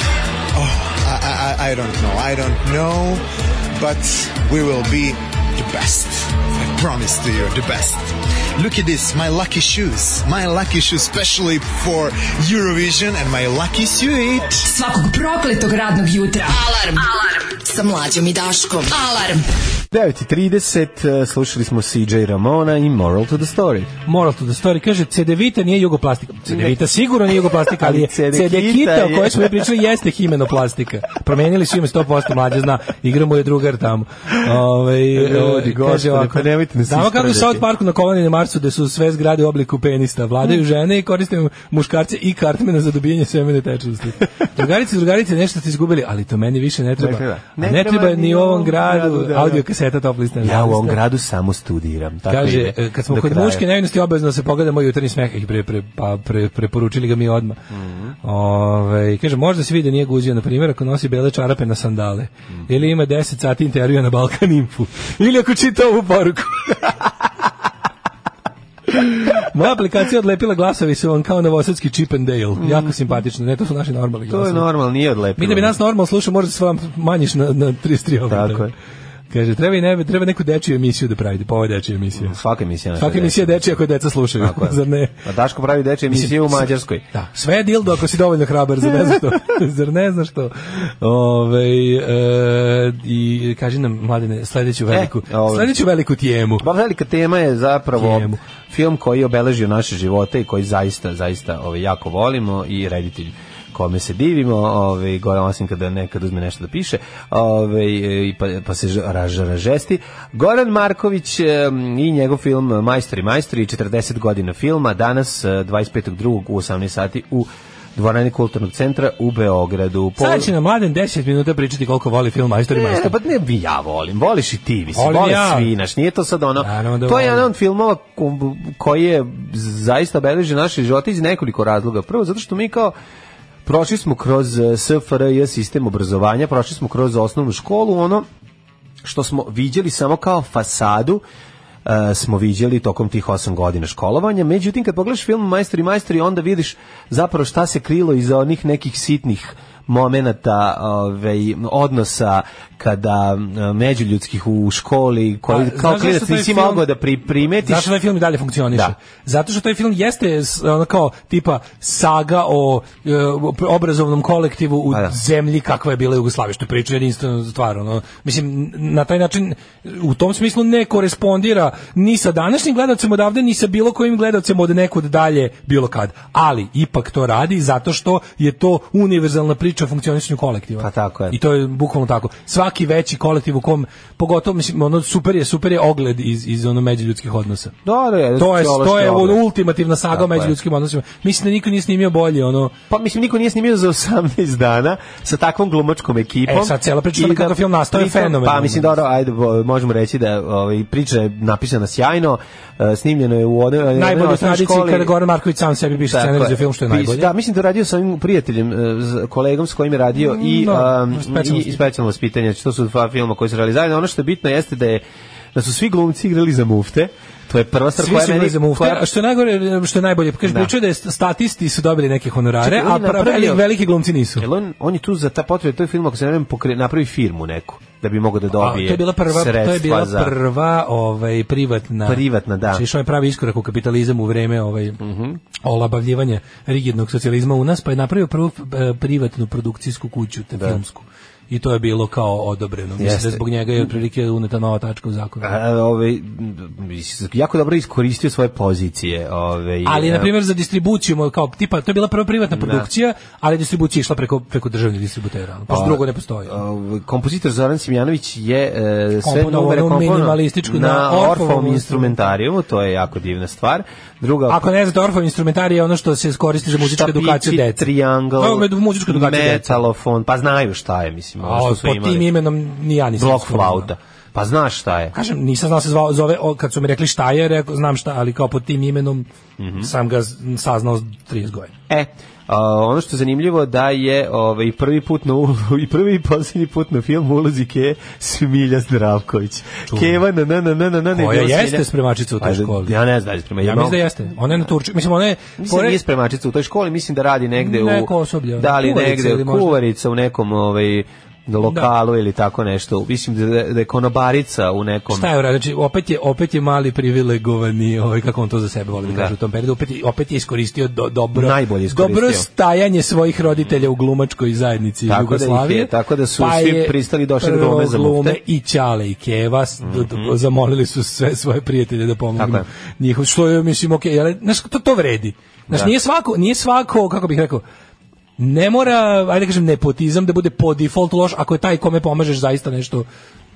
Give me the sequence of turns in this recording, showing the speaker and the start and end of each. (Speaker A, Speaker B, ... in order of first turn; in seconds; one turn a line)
Speaker A: 0.5-3.2
Speaker A: 3.8-14.7
Speaker B: 14.7-19.4
Speaker C: 19.9-23.9
Speaker D: 24.0-51.0
Speaker C: 26.5-29.7
Speaker C: 35.1-37.6
Speaker C: 47.0-49.6
Speaker C: 50.4-53.6
Speaker D: 52.2-57.6
Speaker C: 57.7-58.1
Speaker D: 58.2-67.0
Speaker D: 68.9-74.7
Speaker C: 72.6-72.9
Speaker C: 74.3-75.8
Speaker D: 75.4-78.7
Speaker C: 78.3-78.7
Speaker D: 79.3-82.4
Speaker C: 82.2-83.6
Speaker D: 83.0-85.2
Speaker C: 84.4-87.0
Speaker D: 86.1-96.7
Speaker C: 94.9-95.7
Speaker C: 96.6-120.5
Speaker D: 98.0-98.4
Speaker D: 120.2-123.1
Speaker C: 122.7-132.9
Speaker D: 124.9-125.7
Speaker D: 126.6-127.5
Speaker C: 133.6-138.3
Speaker C: 139.0-141.2
Speaker C: 141.8-157.9
Speaker D: 155.5-156.8
Speaker D: 157.5-187.7
Speaker C: 180.8-181.4
Speaker C: 187.8-189.4
Speaker D: 188.4-192.7
Speaker C: 190.1-190.5
Speaker C: 192.9-205.1
Speaker D: 196.5-198.9
Speaker D: 203.9-207.3
Speaker C: 206.0-215.0
Speaker D: 210.2-211.8
Speaker C: 215.5-219.0
Speaker D: 218.0-224.4
Speaker C: 220.4-220.7
Speaker C: 222.6-223.6
Speaker C: 224.4-230.3
Speaker D: 228.6-235.0
Speaker C: 232.0-232.8
Speaker C: 235.0-235.4
Speaker D: 235.6-245.6
Speaker C: 243.0-243.9
Speaker C: 245.4-250.3
Speaker D: 249.8-256.6
Speaker C: 252.5-252.9
Speaker C: 255.7-264.7
Speaker D: 259.2-262.2
Speaker D: 264.5-269.8
Speaker C: 266.7-272.3
Speaker D: 271.4-273.9
Speaker C: 273.2-275.1
Speaker D: 275.1-279.2
Speaker C: 279.6-279.9
Speaker D: 279.8-281.7
Speaker C: 281.9-291.9
Speaker D: 289.9-290.2
Speaker D: 291.1-292.9
Speaker C: 292.4-294.6
Speaker D: 293.6-296.0
Speaker C: 295.6-305.3
Speaker D: 297.6-299.8
Speaker D: 301.6-301.9
Speaker D: 305.1-327.6
Speaker C: 309.0-309.3
Speaker C: 311.3-312.4
Speaker C: 315.1-318.4
Speaker C: 319.8-320.3
Speaker C: 322.4-322.6
Speaker D: 328.4-333.1